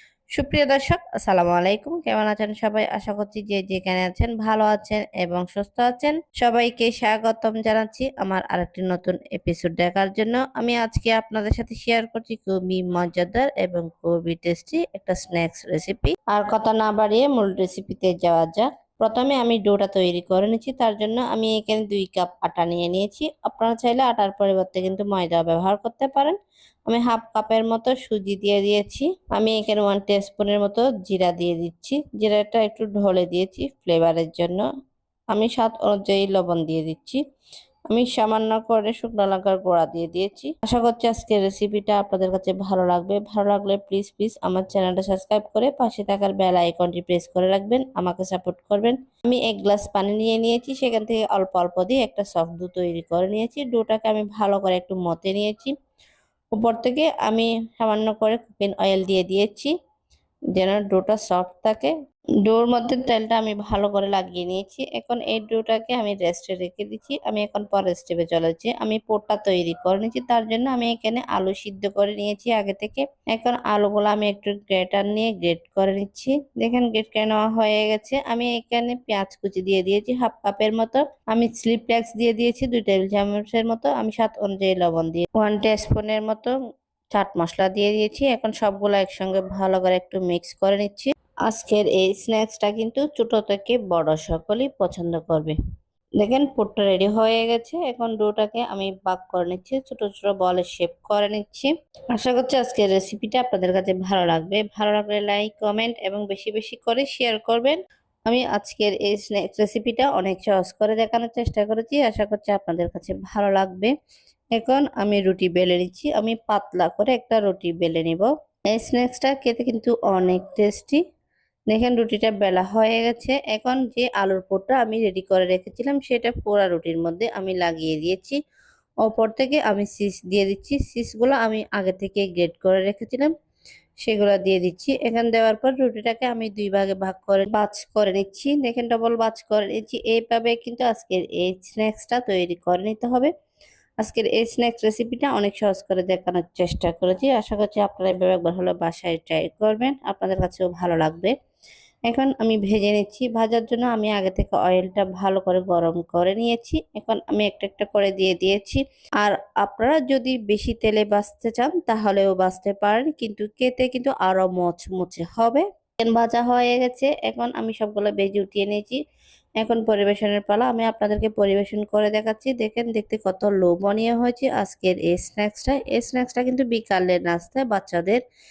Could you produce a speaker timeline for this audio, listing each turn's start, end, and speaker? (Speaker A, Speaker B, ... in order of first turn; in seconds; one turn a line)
Speaker A: 0.3-26.3
Speaker A: 26.9-34.6
Speaker A: 35.3-37.2
Speaker A: 37.9-55.7
Speaker A: 56.5-59.7
Speaker A: 60.5-61.9
Speaker A: 62.4-86.5
Speaker A: 87.1-95.5
Speaker A: 96.2-113.9
Speaker A: 114.5-121.0
Speaker A: 121.7-128.4
Speaker A: 129.0-133.3
Speaker A: 134.0-143.3
Speaker A: 144.0-151.3
Speaker A: 152.1-169.0
Speaker A: 169.6-178.2